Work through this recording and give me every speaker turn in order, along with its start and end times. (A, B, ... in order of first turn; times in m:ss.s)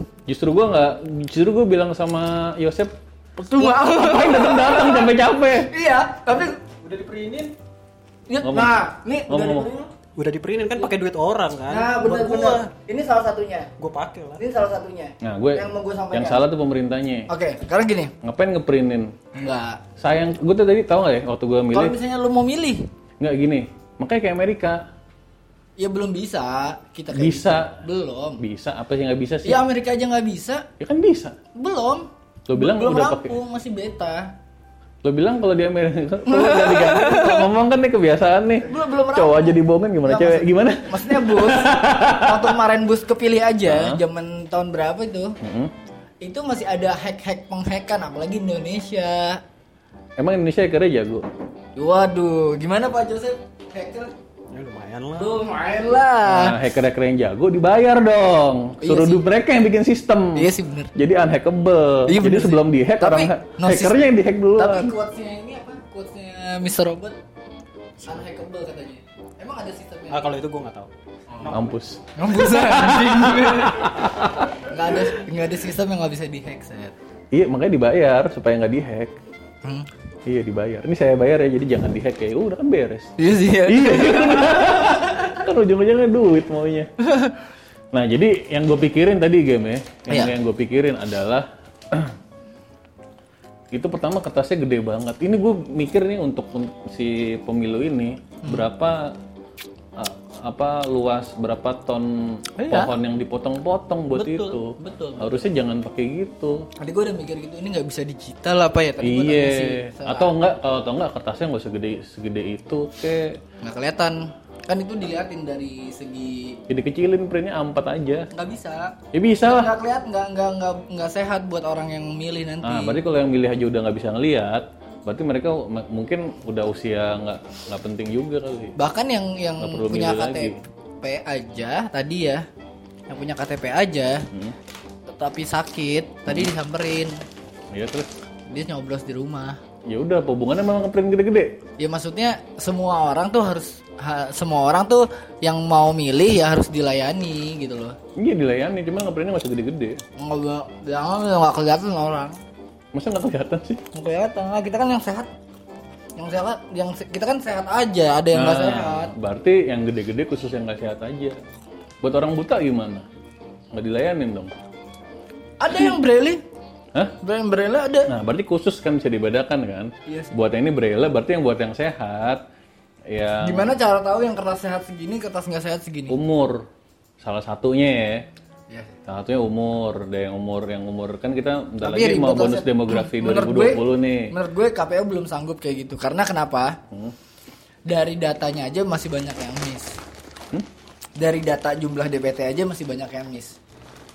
0:00.3-0:02.9 A
0:03.4-0:05.1 B
0:03.6-0:05.7 A
0:05.7-0:06.6 B
0:06.8-0:07.5 C
0:08.3-0:09.9 B
0:08.4-0:09.7 A
0:10.0-0:12.7 C
0:11.7-0:13.7 B
0:13.8-0:14.4 C
0:14.4-0:16.4 B
0:15.2-0:17.3 A
0:17.3-0:18.1 B
0:18.2-0:19.2 A
0:19.3-0:19.8 B
0:20.0-0:22.0 A
0:21.7-0:22.8 B
0:23.2-0:24.8 A
0:25.8-0:28.4 B
0:27.1-0:27.7 A
0:28.4-0:29.6 A
0:29.4-0:30.7 B
0:30.8-0:31.4 A
0:31.5-0:34.3 B
0:32.5-0:33.3 A
0:35.0-0:42.6 A
0:36.2-0:37.5 B
0:38.6-0:45.4 B
0:43.6-0:44.0 A
0:45.4-0:45.7 A
0:46.2-0:49.4 B
0:50.2-0:51.2 A
0:51.8-0:54.1 B
0:54.5-0:55.4 C
0:55.1-0:56.6 B
0:56.2-1:04.9 A
0:58.8-0:59.2 B
1:00.3-1:00.9 B
1:02.0-1:07.2 B
1:08.0-1:10.3 B
1:10.1-1:11.7 C
1:11.3-1:11.6 B
1:11.5-1:14.5 A
1:12.2-1:14.0 B
1:14.6-1:16.9 B
1:17.3-1:19.1 A
1:20.2-1:26.9 A
1:23.2-1:25.3 B
1:27.0-1:27.4 B
1:27.9-1:32.2 A
1:30.1-1:30.3 B
1:33.7-1:39.1 A
1:38.4-1:38.7 B
1:40.0-1:46.7 A
1:42.6-1:42.9 B
1:44.1-1:45.5 B
1:46.8-1:50.4 B
1:49.0-1:53.4 A
1:53.6-1:56.6 B
1:56.7-1:58.3 A
1:58.3-2:03.0 B
1:59.1-1:59.7 A
2:02.6-2:08.7 A
2:08.8-2:12.4 B
2:09.6-2:10.6 A
2:13.1-2:14.3 B
2:15.1-2:17.1 B
2:17.7-2:18.1 A
2:18.5-2:19.6 B
2:19.9-2:21.5 A
2:21.8-2:28.0 B
2:28.2-2:30.0 A
2:30.2-2:32.4 B
2:32.9-2:33.8 A
2:33.9-2:35.3 B
2:36.2-2:39.1 B
2:38.3-2:41.4 A
2:42.0-2:43.0 A
2:43.7-2:44.5 A
2:45.6-2:46.4 B
2:47.2-2:48.1 B
2:48.1-2:52.4 A
2:50.0-2:50.3 B
2:53.1-2:53.7 A
2:53.4-2:56.2 B
2:56.1-2:56.6 A
2:57.2-2:58.2 A
2:59.1-3:04.3 A
3:01.8-3:06.8 B
3:07.9-3:10.0 B
3:11.2-3:13.6 B